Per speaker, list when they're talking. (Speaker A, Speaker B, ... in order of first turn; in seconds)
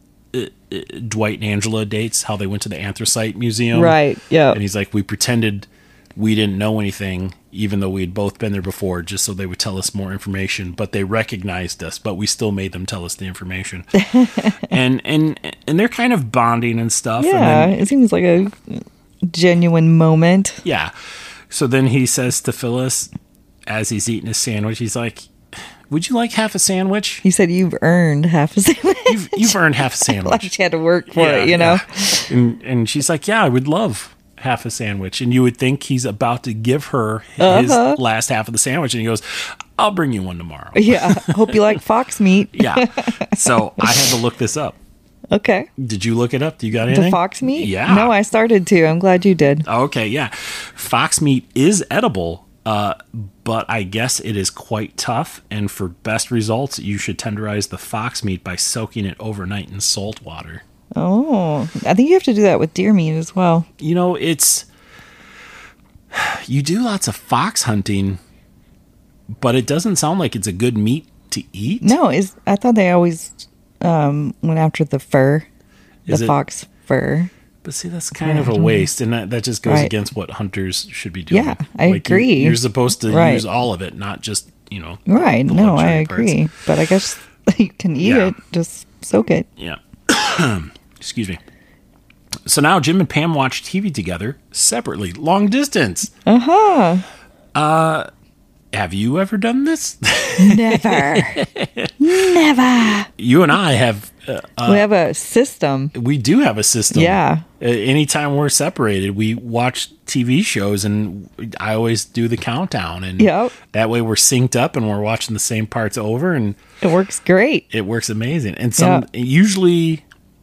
Speaker A: 0.3-4.0, 4.5-13.9, 14.5-17.9, 20.6-20.9, 21.5-23.1, 23.7-27.2, 29.1-30.5, 31.1-41.8, 42.5-44.8, 45.8-48.1, 49.6-60.6, 63.8-64.7, 66.1-68.2, 69.3-72.0, 76.1-76.3, 77.6-86.4, 88.0-88.3, 89.6-91.4, 92.4-96.1, 97.5-98.1, 98.7-102.4, 103.2-104.9, 105.9-116.6, 117.7-120.0
Speaker B: 3.7-4.6, 13.9-14.7, 17.2-20.6, 27.2-32.3, 37.4-38.0, 40.7-44.1, 45.3-45.7, 46.9-49.6, 60.9-63.7, 71.8-75.5, 76.1-77.3, 78.2-78.9, 79.7-79.9, 81.3-83.4, 85.1-89.5, 96.2-97.0, 100.4-101.4, 102.0-103.1, 104.7-105.9, 106.9-107.4, 113.2-113.5, 116.8-117.6, 118.8-119.0